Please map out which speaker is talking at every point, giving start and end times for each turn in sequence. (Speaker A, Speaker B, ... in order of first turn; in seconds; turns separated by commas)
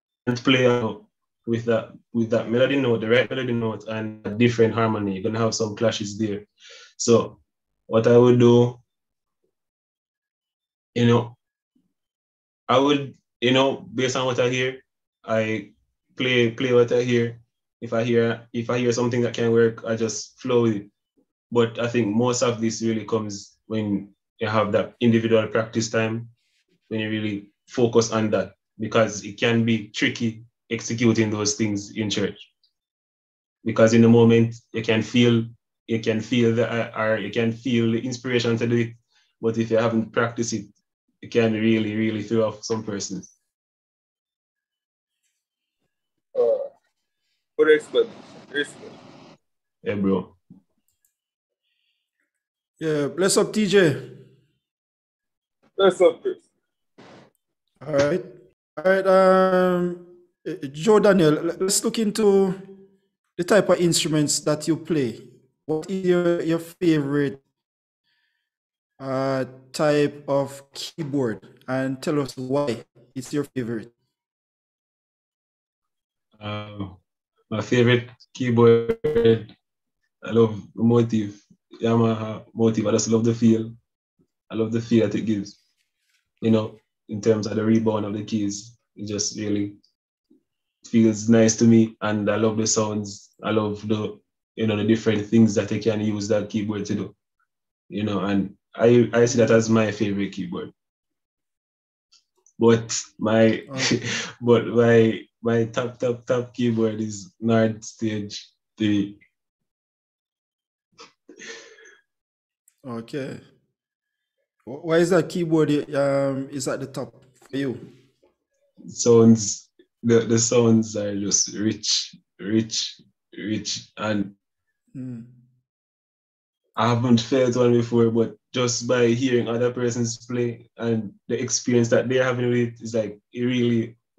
Speaker A: 0.3-6.5, Speaker A: 7.0-8.8, Speaker A: 10.9-11.4, Speaker A: 12.7-20.9, Speaker A: 21.5-26.3, Speaker A: 26.9-32.5, Speaker A: 33.6-40.7, Speaker A: 41.2-43.3, Speaker B: 46.3-46.7, Speaker B: 47.6-48.9, Speaker A: 49.8-50.4, Speaker C: 52.8-54.1, Speaker B: 55.8-56.4, Speaker C: 57.8-58.2, Speaker C: 58.8-62.7, Speaker C: 63.4-67.4, Speaker C: 69.0-73.9, Speaker A: 76.4-77.0, Speaker A: 77.5-79.5, Speaker A: 80.2-83.8, Speaker A: 84.5-85.6, Speaker A: 86.4-89.8, Speaker A: 90.8-97.1, Speaker A: 97.9-100.7, Speaker A: 102.6-109.2, Speaker C: 103.7-103.9, Speaker C: 112.8-113.4, Speaker C: 114.7-117.8, Speaker A: 118.9-124.3, Speaker C: 124.9-125.3, Speaker A: 126.8-133.9